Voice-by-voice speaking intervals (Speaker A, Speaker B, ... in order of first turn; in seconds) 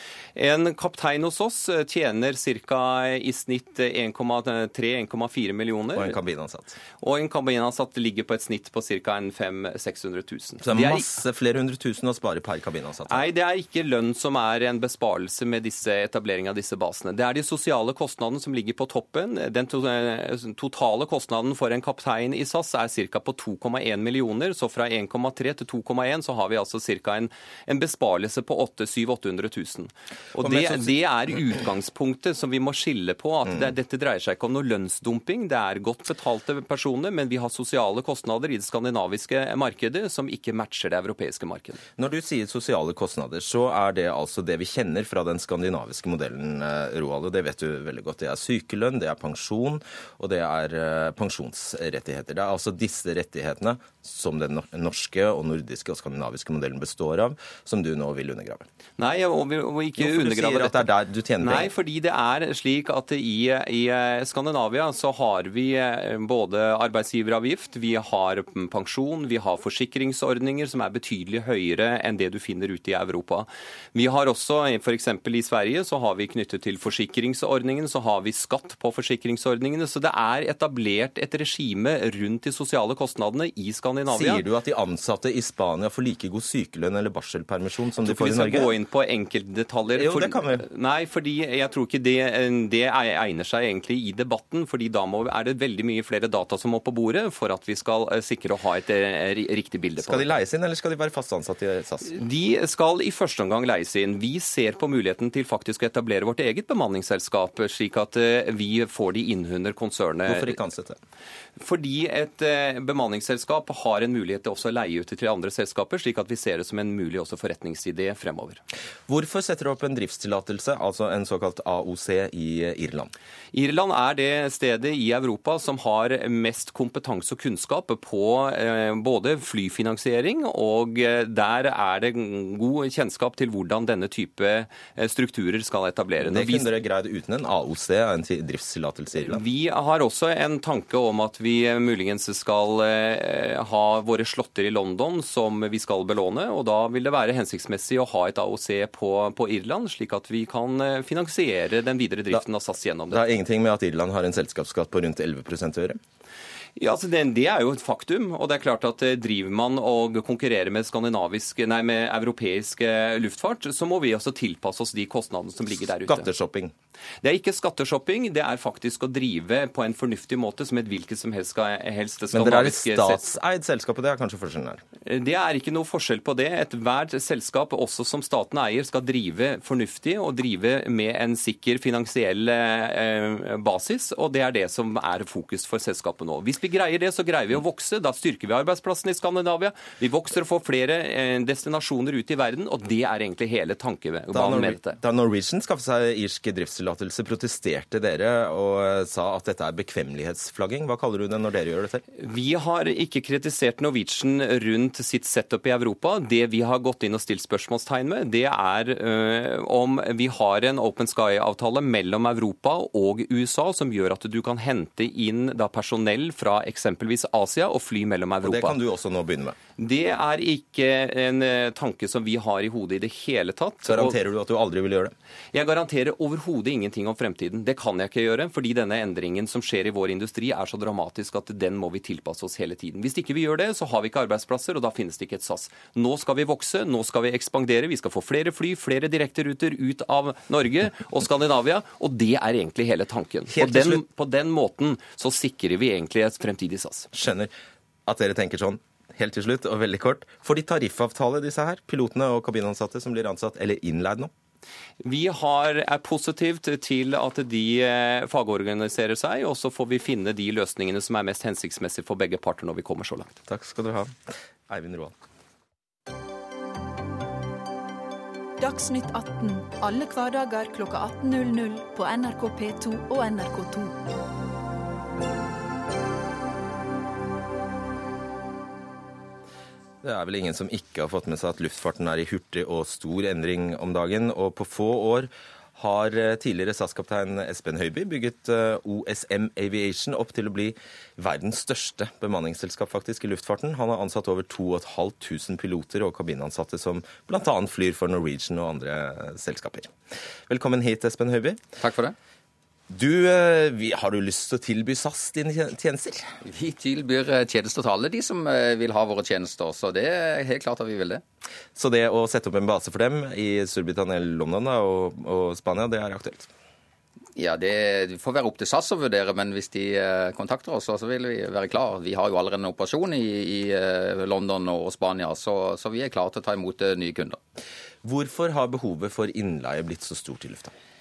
Speaker A: 0.3-6.2, 7.0-11.1, 13.1-41.8, 59.0-84.4, 88.0-100.3, 102.1-110.5, 111.6-118.6, 123.5-136.7, 139.2-153.2, 156.8-166.3, 167.2-173.2, 175.0-195.0, 202.2-218.8, 219.8-224.2, 225.5-247.1, 255.0-263.4
Speaker B: 5.9-6.8, 10.6-13.2, 30.4-30.9, 42.0-58.6, 60.0-61.7, 84.1-88.7, 89.9-90.6, 100.0-102.2, 110.2-111.0, 119.1-123.1, 136.2-139.4, 153.1-156.0, 166.1-166.7, 172.3-174.8, 194.3-202.0, 218.4-219.6, 223.8-225.1, 243.5-244.0, 247.1-247.5, 248.1-254.3, 263.5-265.1, 280.0-299.9, 300.5-301.6, 302.9-306.3, 311.8-316.5, 328.0-330.7
Speaker C: 268.6-274.0
Speaker D: 301.8-302.1, 306.4-311.2, 317.4-327.4